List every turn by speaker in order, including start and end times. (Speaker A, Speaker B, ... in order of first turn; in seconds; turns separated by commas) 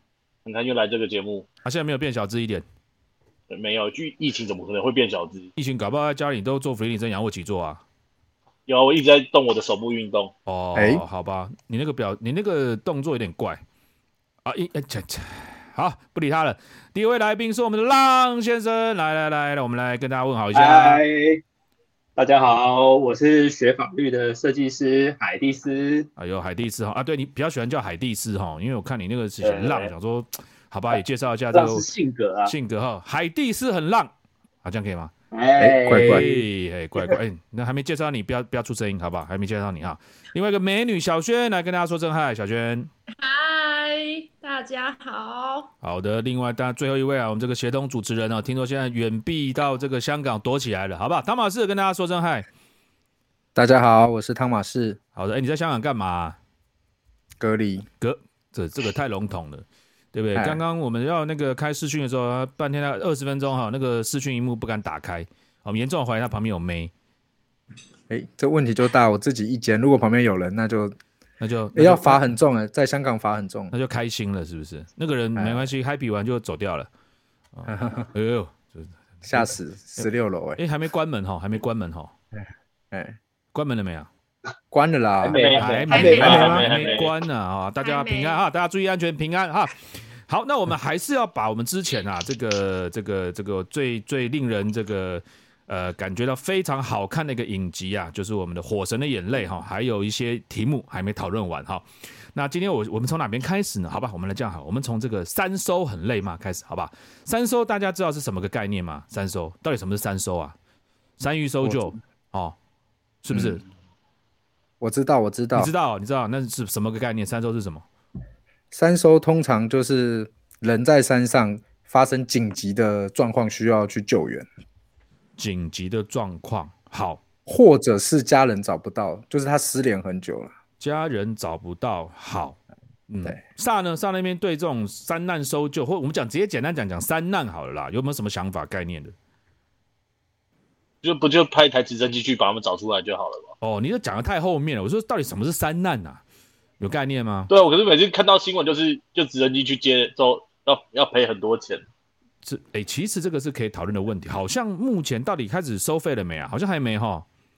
Speaker A: 0.5-1.5, Speaker B: 1.6-2.6, Speaker A: 3.5-5.5, Speaker B: 5.6-7.8, Speaker A: 8.7-10.3, Speaker B: 10.5-13.6, Speaker C: 10.8-11.0, Speaker B: 14.4-21.0, Speaker D: 20.5-21.4, Speaker D: 22.2-26.1, Speaker B: 26.2-31.9, Speaker D: 29.4-29.9, Speaker D: 31.5-32.5, Speaker B: 32.5-34.1, Speaker B: 34.6-35.1, Speaker D: 35.3-36.5, Speaker C: 35.6-36.2, Speaker B: 35.9-42.9, Speaker E: 43.2-45.7, Speaker B: 45.8-52.5, Speaker C: 53.5-55.0, Speaker B: 55.2-56.4, Speaker C: 57.4-57.9, Speaker B: 58.0-66.9, Speaker C: 60.4-60.6, Speaker C: 68.1-71.0, Speaker B: 71.4-72.3, Speaker C: 71.8-73.7, Speaker B: 73.7-76.9, Speaker C: 75.4-75.7, Speaker B: 77.5-80.1, Speaker C: 77.7-78.1, Speaker C: 79.2-80.6, Speaker B: 80.6-82.1, Speaker C: 82.9-83.2, Speaker B: 83.5-84.1, Speaker C: 84.7-85.5, Speaker D: 85.2-87.0, Speaker A: 85.3-87.1, Speaker B: 85.5-110.5, Speaker E: 85.9-86.7, Speaker C: 86.0-86.5, Speaker E: 87.8-88.5, Speaker B: 111.2-112.6, Speaker C: 111.6-111.9, Speaker B: 113.2-113.6, Speaker C: 113.3-113.6, Speaker C: 114.8-115.7, Speaker B: 115.5-117.8, Speaker C: 118.7-124.5, Speaker B: 125.4-127.2, Speaker C: 127.5-130.5, Speaker B: 130.8-139.1, Speaker A: 141.0-143.5, Speaker B: 143.6-146.2, Speaker B: 146.8-147.5, Speaker A: 147.5-151.8, Speaker B: 152.4-157.3